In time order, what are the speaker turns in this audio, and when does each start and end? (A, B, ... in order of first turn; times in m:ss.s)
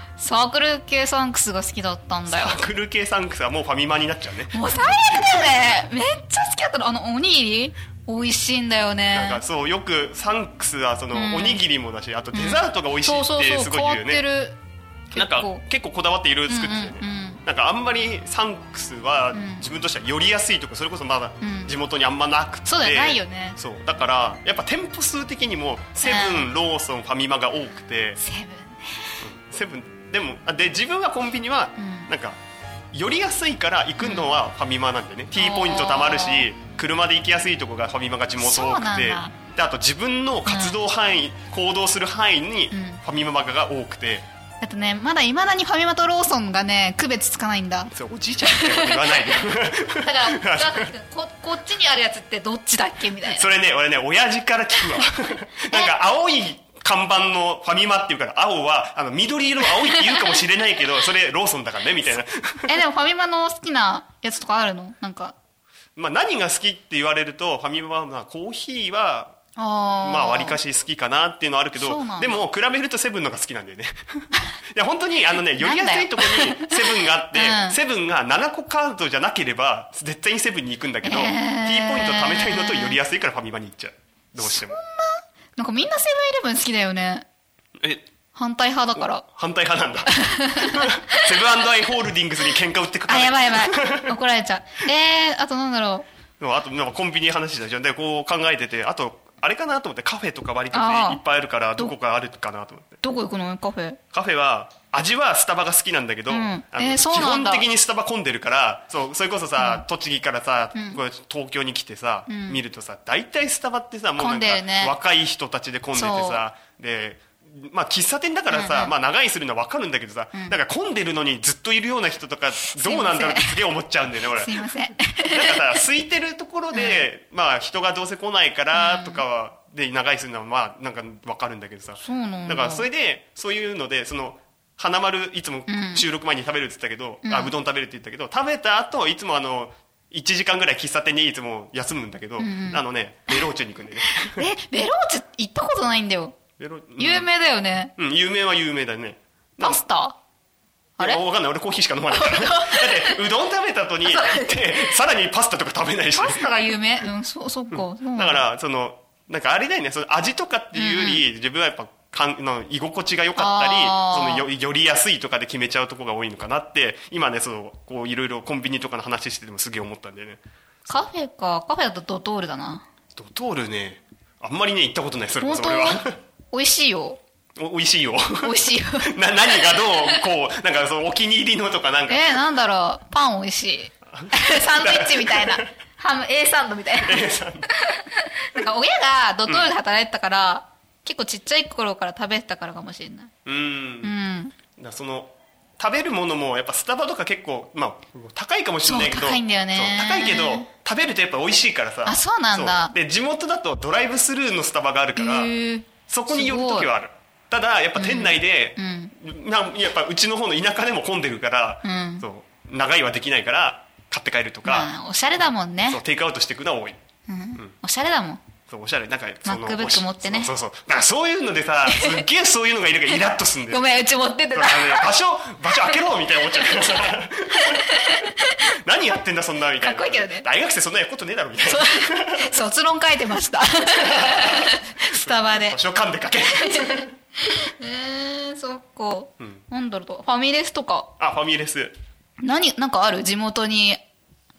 0:00.2-0:02.6 A
0:02.3-0:05.3 B
0:04.5-0:09.4 A
0:09.1-0:14.2 B
0:11.1-0:11.6 A
0:12.3-0:14.6 A
0:15.1-0:15.6 A
0:15.1-0:28.2 B
0:16.5-0:17.4 A
0:19.3-0:19.6 A
0:21.4-0:21.7 A
0:22.7-0:23.6 A
0:26.0-0:26.5 A
0:28.2-0:29.2 A
0:29.2-0:32.4 B
0:31.8-0:32.1 A
0:32.9-0:44.2 B
0:34.0-0:34.3 A
0:35.4-0:36.5 A
0:38.4-0:39.3 A
0:40.4-0:40.8 A
0:42.7-0:43.0 A
0:44.6-0:47.9 A
0:47.9-0:50.9 B
0:48.4-0:53.4 A
0:53.2-1:02.7 B
0:55.7-0:55.9 A
0:59.8-1:00.4 A
1:02.7-1:05.3 A
1:06.0-1:09.4 B
1:09.6-1:10.6 A
1:10.0-1:24.8 B
1:11.8-1:12.4 A
1:15.6-1:17.8 A
1:21.0-1:23.0 A
1:24.4-1:27.2 A
1:27.8-1:28.0 B
1:28.4-1:29.2 A
1:29.0-1:34.1 B
1:30.0-1:31.4 A
1:33.1-1:36.1 A
1:36.4-1:43.0 B
1:40.7-1:41.2 A
1:43.0-1:44.0 A
1:44.1-2:04.7 B
1:46.3-1:47.7 A
1:49.6-1:49.8 A
1:50.7-1:51.0 A
1:52.3-1:52.6 A
1:54.2-1:54.9 A
1:55.9-1:56.4 A
1:58.5-1:58.9 A
2:02.7-2:03.6 A
2:04.3-2:05.8 A
2:05.3-2:24.4 B
2:06.7-2:07.0 A
2:08.7-2:09.2 A
2:12.0-2:12.9 A
2:15.7-2:16.0 A
2:17.2-2:17.5 A
2:22.4-2:23.4 A
2:24.1-2:26.4 A
2:26.6-2:27.3 B
2:27.0-2:27.9 A
2:28.0-2:29.8 B
2:29.6-2:30.2 A
2:31.0-2:36.5 B
2:32.1-2:33.2 A
2:34.0-2:35.0 A
2:36.2-2:38.4 A
2:37.7-2:51.1 B
2:40.7-2:41.2 A
2:43.4-2:44.5 A
2:50.9-2:52.8 A
2:53.1-2:56.2 B
2:55.4-2:57.2 A
2:57.6-3:02.4 B
2:58.4-3:00.2 A
3:02.1-3:13.3 A
3:04.1-3:05.7 B
3:07.0-3:07.7 B
3:13.4-3:14.1 B
3:14.0-3:14.5 A
3:14.7-3:25.5 B
3:18.8-3:20.7 A
3:22.0-3:22.9 A
3:25.2-3:26.9 A
3:26.1-3:34.9 B
3:27.9-3:29.1 A
3:31.8-3:32.2 A
3:34.6-3:36.0 A
3:35.9-3:37.0 B
3:37.3-3:38.4 A
3:38.7-3:43.9 B
3:39.4-3:40.5 A
3:41.8-3:42.3 A
3:43.7-3:45.1 A
3:44.5-3:48.0 B
3:45.7-3:46.0 A
3:46.5-3:48.6 A
3:48.6-3:52.6 B
3:49.8-3:50.4 A
3:51.6-3:55.8 A
3:53.9-3:57.1 B
3:56.5-4:01.1 A
3:59.4-3:59.6 B
4:01.2-4:01.9 B
4:02.4-4:04.0 A